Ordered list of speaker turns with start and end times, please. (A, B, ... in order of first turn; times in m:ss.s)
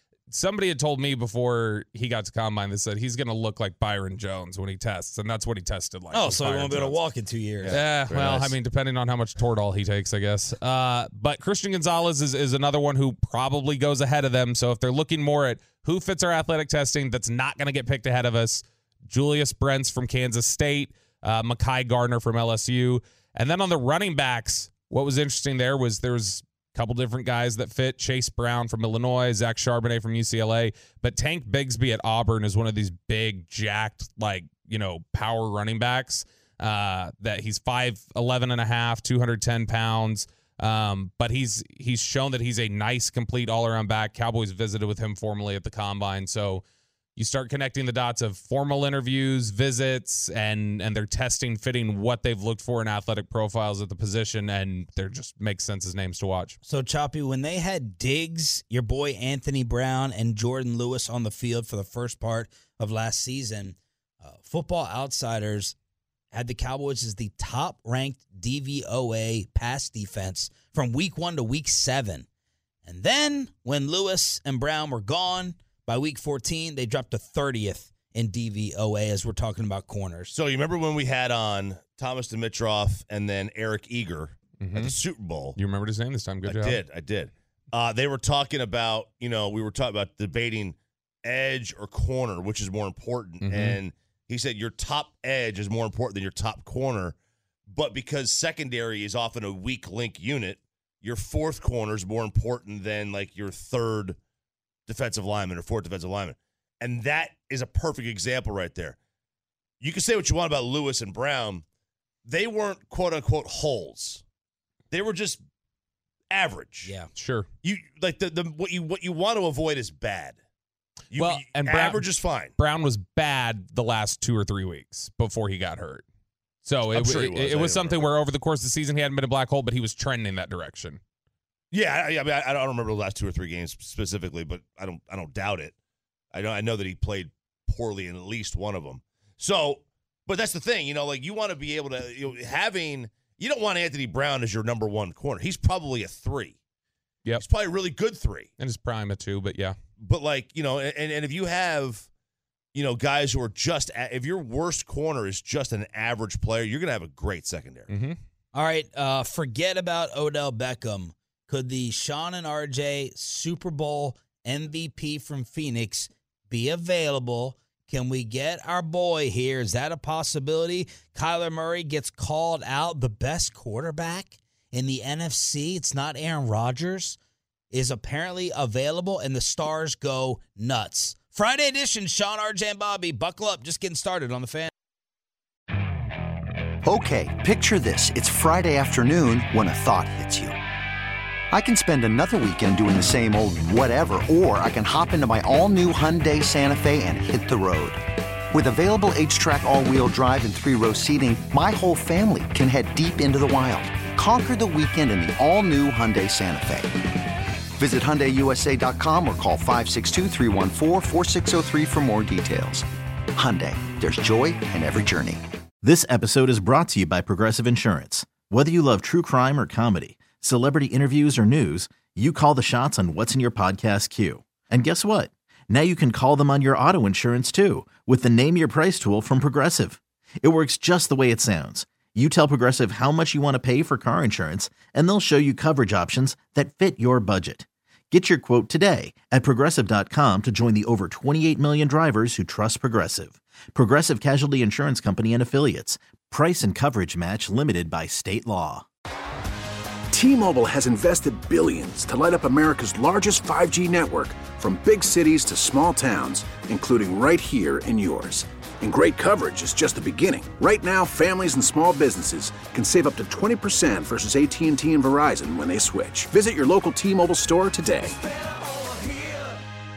0:00.3-0:07.0 A
0:06.1-0:07.8 B
0:07.6-0:08.6 C
0:07.7-0:46.6 A
0:47.2-0:56.6 A
0:56.6-1:05.7 B
1:06.3-1:12.2 B
1:12.8-1:20.3 B
1:20.3-1:25.6 C
1:24.6-1:25.0 A
1:25.5-1:26.8 A
1:26.4-1:37.2 C
1:33.4-1:33.8 A
1:37.7-1:44.2 C
1:44.9-1:49.0 C
1:49.8-1:51.6 C
1:52.2-1:54.2 C
1:54.9-1:55.4 C
1:56.3-1:56.9 C
1:56.8-1:57.1 B
1:57.1-1:57.5 A
1:57.6-2:00.4 C
2:01.1-2:02.5 C
2:01.1-2:06.0 A
2:06.6-2:11.0 A
2:06.9-2:08.1 C
2:11.7-2:15.7 C
2:16.3-2:26.6 C
2:27.4-2:28.5 C
2:28.6-2:29.8 A
2:30.0-2:32.1 C
2:32.7-2:37.9 C
2:37.9-2:38.2 A
2:38.5-2:57.2 B
2:57.7-3:04.7 B
3:06.8-3:10.6 D
3:11.5-3:18.0 D
3:18.5-3:27.1 D
3:27.8-3:35.4 D
3:35.8-4:08.8 E
4:10.1-4:28.2 F